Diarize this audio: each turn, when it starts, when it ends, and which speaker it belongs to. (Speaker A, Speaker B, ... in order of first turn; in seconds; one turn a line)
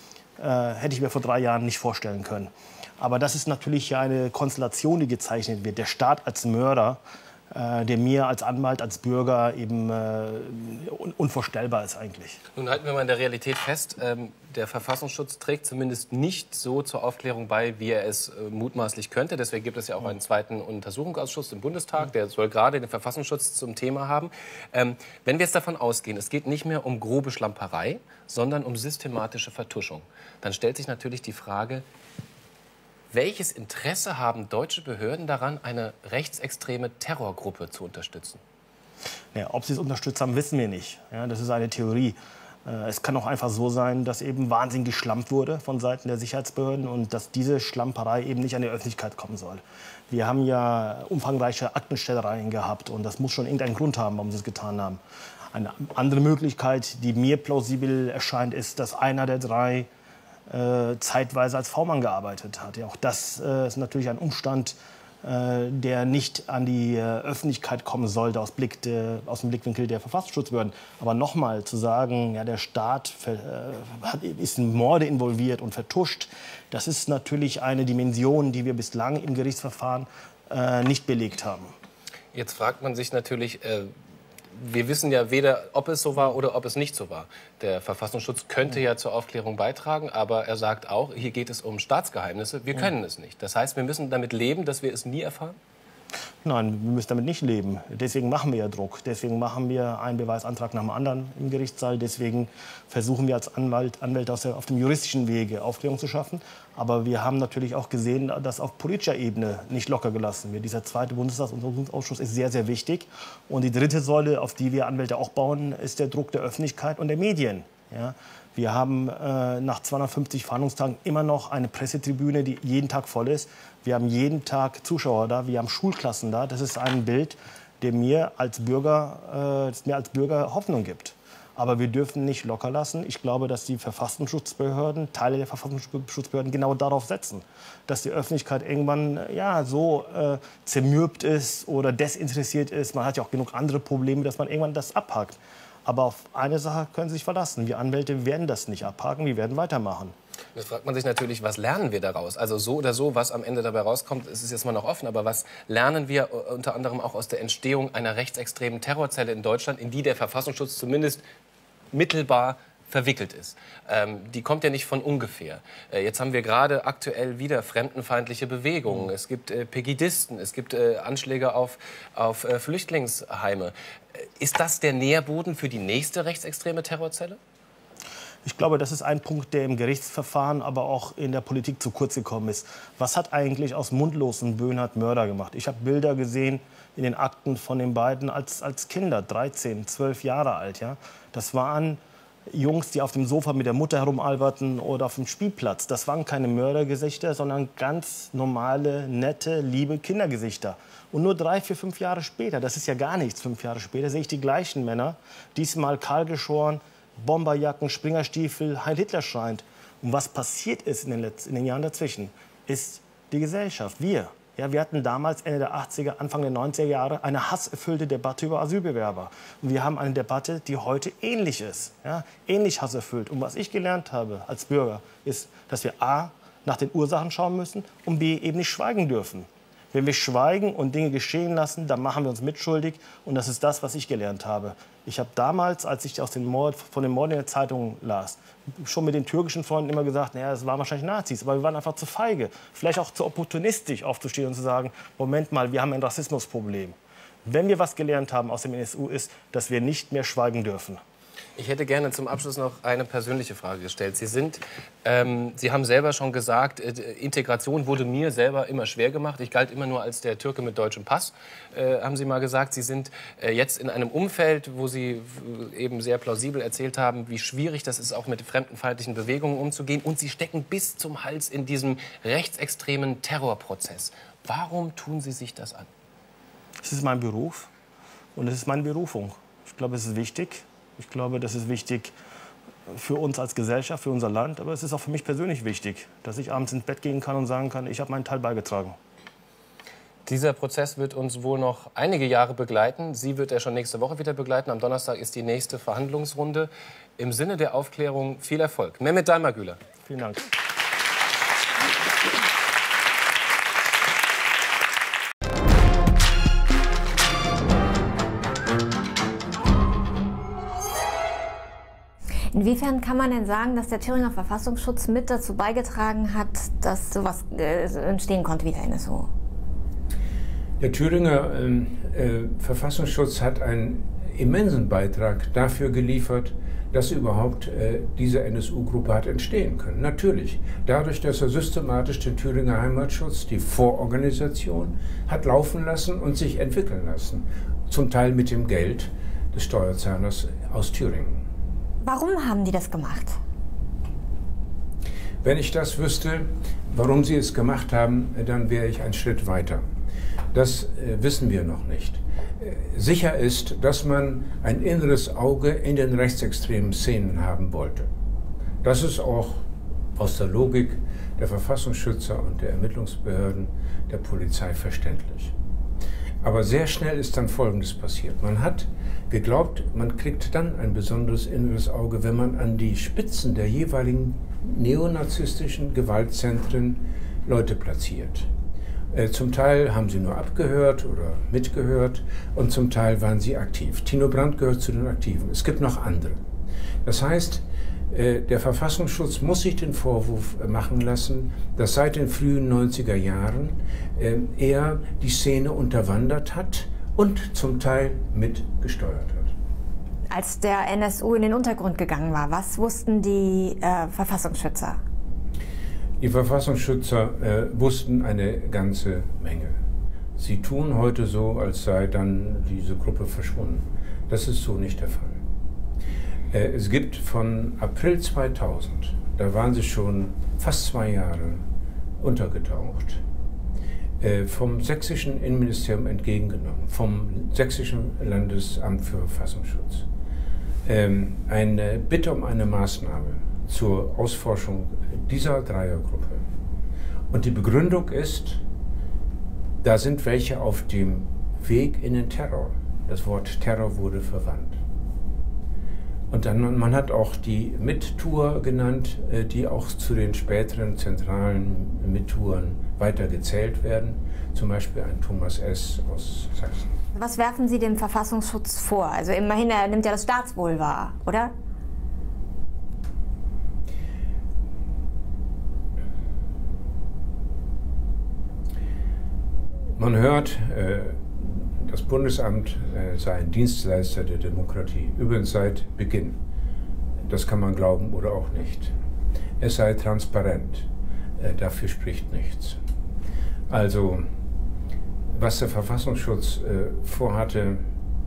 Speaker A: 0.4-7.0
Speaker A: 7.5-12.4
Speaker B: 12.5-31.8
Speaker B: 33.1-38.4
Speaker A: 39.3-55.0
Speaker A: 55.5-59.9
Speaker A: 60.5-81.7
Speaker B: 82.3-83.9
Speaker B: 84.5-95.6
Speaker A: 96.4-150.1
Speaker B: 150.5-161.2
Speaker B: 161.9-177.4
Speaker A: 178.4-192.0
Speaker A: 192.5-251.0
Speaker B: 251.6-275.9
Speaker A: 276.8-277.7
Speaker A: 278.3-282.1
Speaker A: 282.9-289.0
Speaker B: 290.2-299.8
Speaker A: 300.1-300.5
Speaker C: 312.5-319.3
Speaker D: 320.8-341.4
Speaker C: 342.0-343.4
Speaker D: 345.4-349.8
Speaker D: 350.5-358.1
Speaker D: 358.8-359.6
Speaker D: 360.1-365.5
Speaker D: 366.4-378.5
Speaker D: 379.1-386.4
Speaker D: 387.0-399.5
Speaker C: 400.3-405.0
Speaker D: 406.2-409.8
Speaker D: 410.4-415.4
Speaker D: 416.5-421.6
Speaker D: 422.2-423.2
Speaker D: 424.2-430.1
Speaker D: 430.9-436.4
Speaker D: 437.3-438.6
Speaker D: 439.8-444.8
Speaker D: 446.3-457.0
Speaker C: 457.1-461.5
Speaker D: 470.0-476.4
Speaker D: 477.3-478.9
Speaker D: 479.6-480.9
Speaker D: 481.4-482.8
Speaker D: 483.7-484.3
Speaker D: 485.3-487.8